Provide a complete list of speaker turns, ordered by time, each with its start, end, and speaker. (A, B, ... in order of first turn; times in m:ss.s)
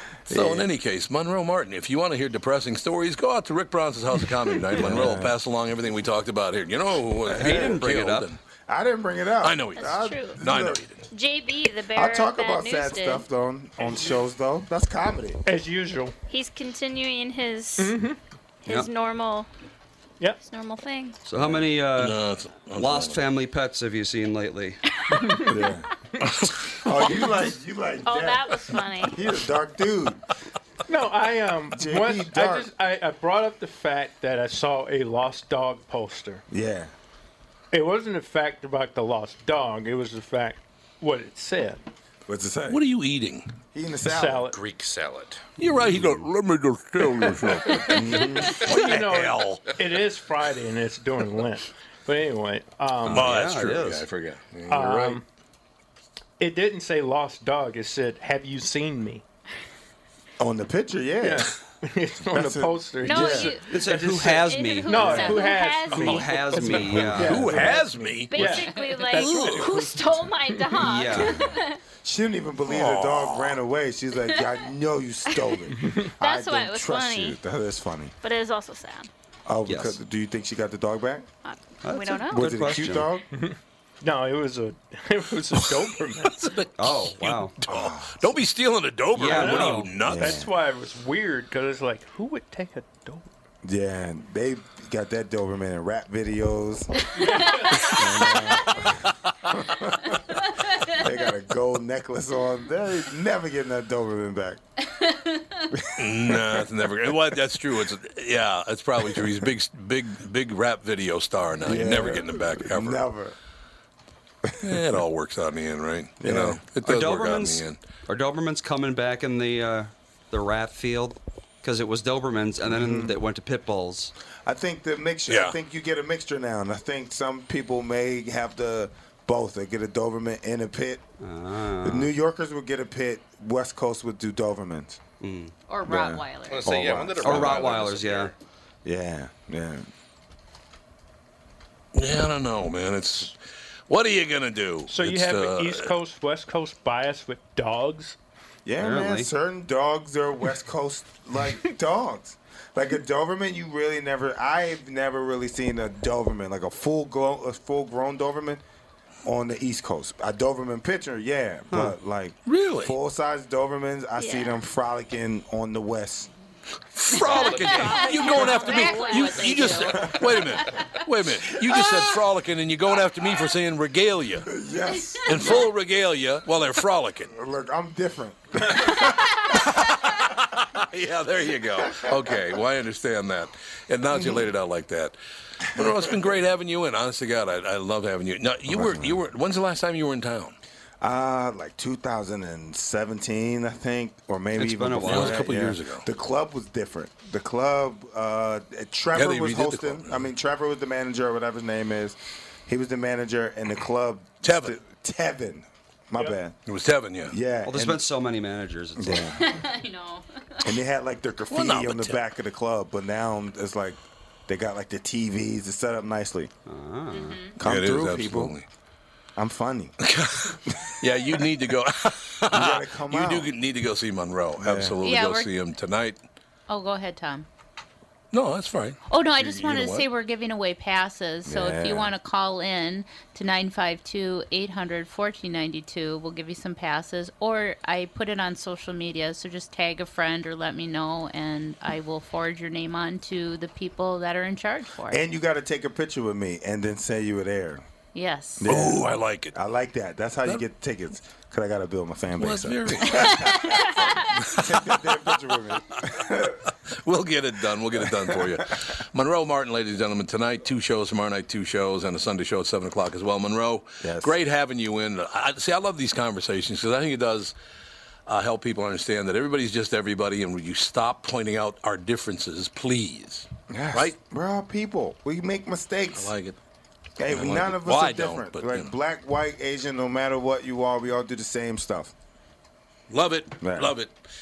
0:00.3-0:00.7 A
0:00.3-0:08.4 B
0:04.8-0:05.4 A
0:04.9-0:05.2 C
0:07.3-0:08.3 C
0:07.4-0:07.8 A
0:08.7-0:10.8 A
0:09.4-0:11.0 B
0:09.8-0:10.4 D
0:11.1-0:13.2 D
0:11.9-0:15.4 A
0:15.5-0:16.2 E
0:16.3-0:18.0 D
0:17.8-0:18.2 E
0:18.6-0:19.5 D
0:20.4-0:21.2 D
0:21.2-0:22.2 C
0:21.4-0:23.2 B
0:22.7-0:24.8 C
0:25.1-0:25.4 D
0:25.1-0:25.6 E
0:25.5-0:25.9 A
0:26.7-0:30.2 A
0:28.0-0:29.2 D
0:30.9-0:36.4 E
0:31.7-0:32.7 A
0:36.5-0:36.9 A
0:37.7-0:41.8 E
0:42.3-0:42.8 A
0:42.7-0:43.5 B
0:43.7-0:44.5 A
0:44.1-0:44.6 E
0:44.4-0:45.5 F
0:45.6-0:49.6 B
0:47.9-0:48.6 A
0:48.5-0:53.3 E
0:53.1-0:55.2 B
0:53.1-0:54.1 C
0:54.7-0:55.2 E
0:56.4-0:59.2 E
1:00.4-1:01.5 A
1:01.2-1:03.6 E
1:02.3-1:03.5 A
1:03.0-1:07.0 D
1:03.6-1:07.6 C
1:04.9-1:10.5 E
1:06.8-1:08.6 B
1:07.5-1:07.8 A
1:08.3-1:11.8 D
1:08.4-1:09.0 G
1:09.2-1:09.8 B
1:10.8-1:11.4 C
1:11.2-1:18.2 A
1:12.7-1:13.6 B
1:14.3-1:14.7 D
1:15.3-1:15.6 D
1:15.8-1:16.1 E
1:16.2-1:17.4 D
1:18.2-1:19.1 D
1:19.5-1:21.3 A
1:19.7-1:20.0 C
1:21.4-1:22.5 D
1:21.8-1:23.1 C
1:22.3-1:23.2 A
1:23.4-1:26.4 E
1:26.2-1:30.4 B
1:26.8-1:27.6 C
1:27.7-1:28.4 A
1:29.1-1:30.0 C
1:29.3-1:33.3 E
1:30.0-1:30.5 A
1:33.6-1:40.4 A
1:37.2-1:38.3 D
1:40.9-1:44.6 A
1:45.7-1:46.7 A
1:46.0-1:53.1 B
1:51.6-1:53.4 A
1:54.5-1:55.0 A
1:54.6-1:57.8 B
1:56.2-1:56.6 A
1:56.8-2:04.1 C
2:02.7-2:03.2 A
2:04.4-2:11.0 A
2:05.3-2:05.6 B
2:11.2-2:12.1 C
2:11.8-2:15.0 A
2:15.2-2:15.6 C
2:15.7-2:17.1 G
2:15.9-2:17.7 A
2:16.5-2:18.3 F
2:17.2-2:18.3 C
2:18.8-2:19.9 A
2:21.9-2:23.4 B
2:23.9-2:25.9 B
2:24.9-2:28.2 E
2:28.7-2:38.6 A
2:28.8-2:29.3 C
2:39.2-2:46.3 A
2:41.7-2:42.0 C
2:42.5-2:43.0 B
2:44.2-2:44.6 D
2:46.9-2:54.5 B
2:47.2-2:51.0 G
2:47.2-2:48.2 F
2:48.2-2:49.9 D
2:54.5-2:55.7 A
2:55.2-2:57.3 B
2:57.3-2:59.5 A
2:58.8-3:10.6 B
3:04.1-3:04.5 A
3:05.8-3:06.1 A
3:08.7-3:09.2 A
3:11.0-3:26.6 A
3:14.6-3:15.7 C
3:15.0-3:16.1 B
3:19.1-3:20.3 B
3:24.4-3:24.8 B
3:26.7-3:27.4 B
3:27.3-3:28.1 A
3:27.6-3:29.4 C
3:29.0-3:29.6 A
3:29.4-3:30.5 G
3:30.6-3:36.5 A
3:31.5-3:32.2 B
3:36.7-3:37.4 C
3:37.1-3:37.6 G
3:37.6-3:38.6 A
3:37.6-3:38.7 B
3:39.4-3:40.0 A
3:40.0-3:46.2 B
3:40.7-3:41.2 A
3:42.5-3:43.5 A
3:44.6-3:45.0 A
3:45.0-3:45.5 G
3:46.7-3:47.5 G
3:48.3-3:50.1 B
3:49.1-4:05.2 G
3:51.5-3:52.1 A
4:05.1-4:07.9 A
4:08.1-4:08.7 G
4:08.6-4:16.6 A
4:08.6-4:09.6 B
4:12.4-4:13.7 B
4:14.0-4:14.2 D
4:14.4-4:14.6 B
4:17.0-4:27.6 B
4:18.0-4:18.4 A
4:24.0-4:24.3 A
4:28.3-4:34.2 B
4:33.7-4:36.3 A
4:36.2-4:36.6 B
4:37.2-4:42.1 A
4:37.3-4:38.9 B
4:43.1-4:44.1 B
4:43.6-4:43.9 A